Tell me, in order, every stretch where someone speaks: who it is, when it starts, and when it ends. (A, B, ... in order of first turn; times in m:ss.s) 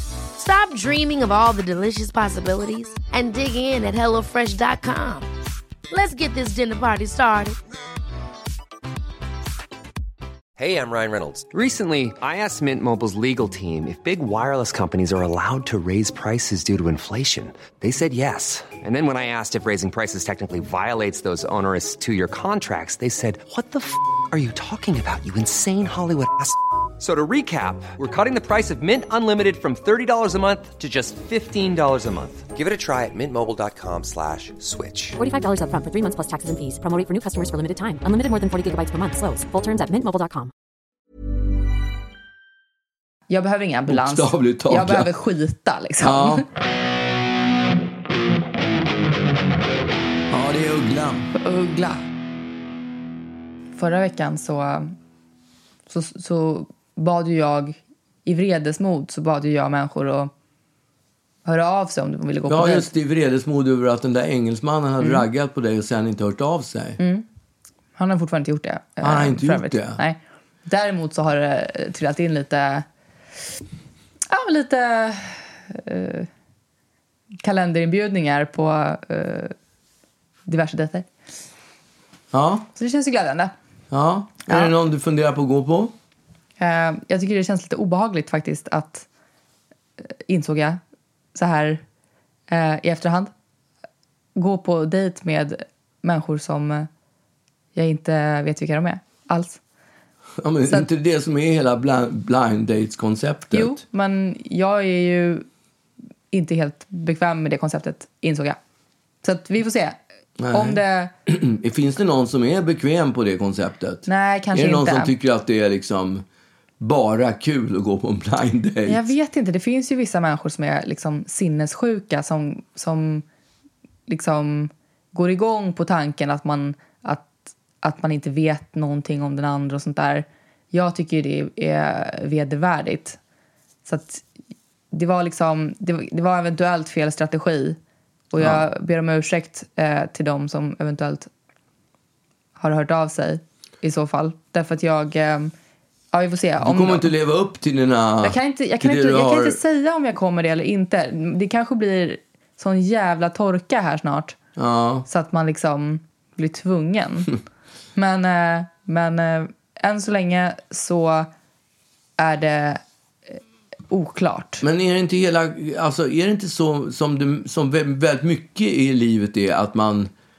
0:00.4-0:05.3 A
0:05.9-0:07.6 A
0:10.6-0:35.2 B
0:35.2-0:40.5 C
0:43.3-0:46.4 D
0:43.9-0:45.1 E
0:46.0-0:46.4 E
0:50.3-0:51.3 E
0:51.4-0:52.0 D
0:53.8-0:54.9 D
0:55.9-1:00.3 D
1:01.4-1:02.9 D
1:02.5-1:07.0 E
1:07.0-1:07.2 D
1:08.0-1:12.8 D
1:09.0-1:10.0 E
1:14.3-1:16.3 D
1:17.4-1:19.5 D
1:20.4-1:21.1 D
1:22.3-1:22.7 E
1:22.7-1:23.5 D
1:23.9-1:25.9 E
1:26.6-1:29.1 D
1:30.3-1:30.8 D
1:31.3-1:31.8 D
1:32.5-1:33.3 D
1:34.4-1:36.9 D
1:37.7-1:39.6 D
1:40.4-1:43.8 E
1:43.5-1:45.4 D
1:46.3-1:48.6 D
1:49.2-1:50.0 D
1:50.4-1:56.2 E
1:50.5-1:51.1 D
1:54.0-1:55.1 D
1:56.8-1:59.1 E
1:58.9-2:03.2 D
2:04.1-2:13.2 D
2:13.8-2:14.2 D
2:14.9-2:17.8 D
2:18.3-2:21.3 D
2:22.6-2:25.5 D
2:26.1-2:27.1 D
2:26.6-2:29.6 E
2:28.2-2:34.4 D
2:34.6-2:35.0 E
2:35.0-2:37.3 D
2:37.9-2:41.3 D
2:42.2-2:42.8 D
2:43.9-2:44.6 D
2:44.6-2:50.1 E